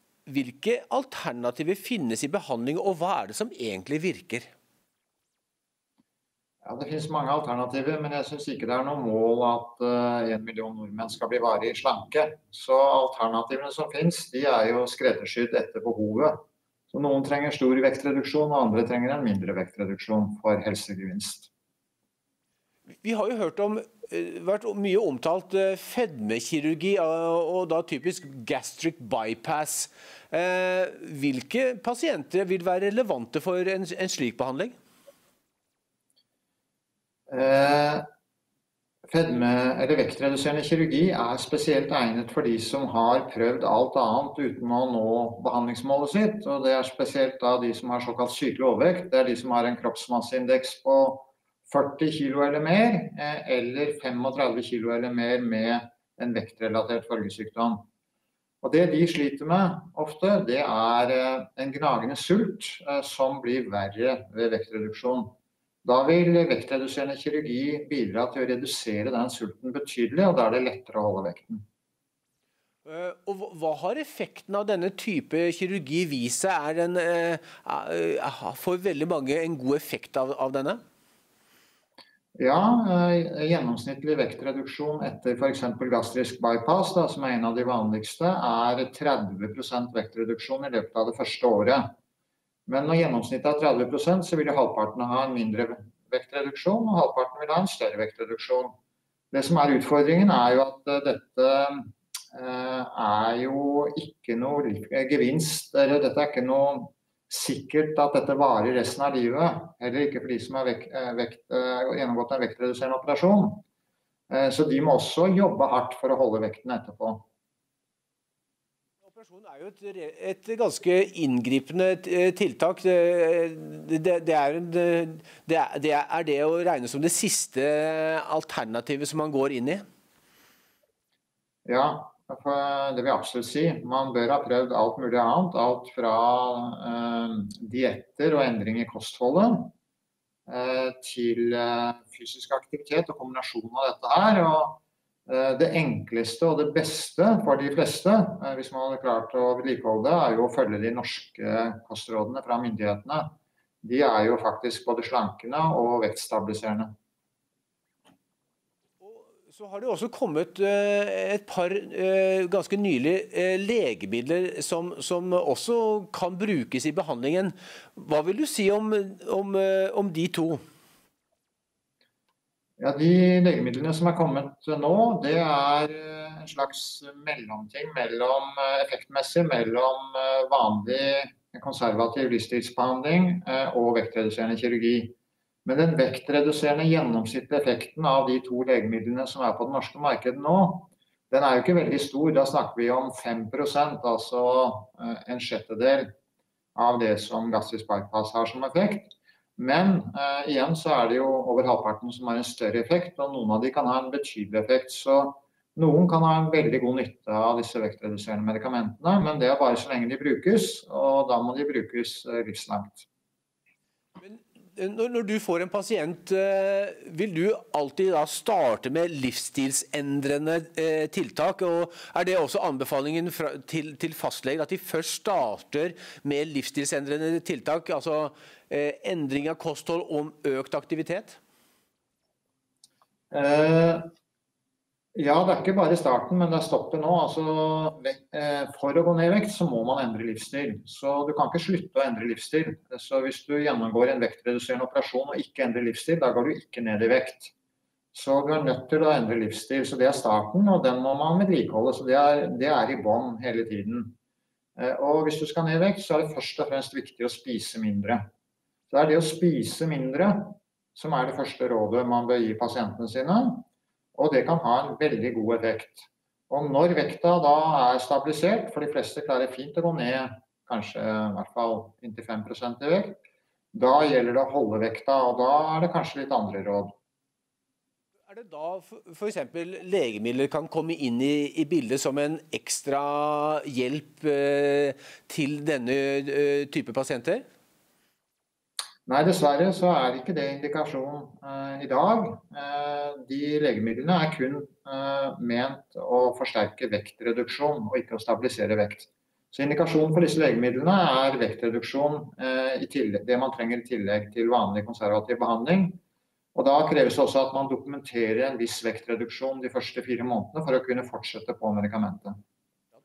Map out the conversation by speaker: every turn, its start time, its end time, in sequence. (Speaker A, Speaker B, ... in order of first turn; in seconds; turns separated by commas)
Speaker A: 0.2-4.5, Speaker B: 6.6-16.4, Speaker B: 16.9-21.5, Speaker A: 23.0-34.7, Speaker B: 37.3-38.0, Speaker B: 39.1-57.9, Speaker B: 58.6-71.6, Speaker A: 72.8-80.8, Speaker B: 82.3-91.9, Speaker B: 92.7-98.8, Speaker B: 99.3-113.6, Speaker B: 114.3-117.2, Speaker A: 119.0-129.8, Speaker B: 131.6-139.7, Speaker B: 140.5-156.9, Speaker A: 159.0-170.6, Speaker B: 172.8-196.1, Speaker B: 196.7-213.1, Speaker A: 214.2-231.4, Speaker B: 233.3-234.1, Speaker B: 235.1-247.5, Speaker B: 248.1-254.2, Speaker B: 254.8-258.3, Speaker B: 258.9-273.2, Speaker B: 273.7-276.9, Speaker A: 278.3-287.4, Speaker B: 289.1-306.0, Speaker B: 306.5-312.4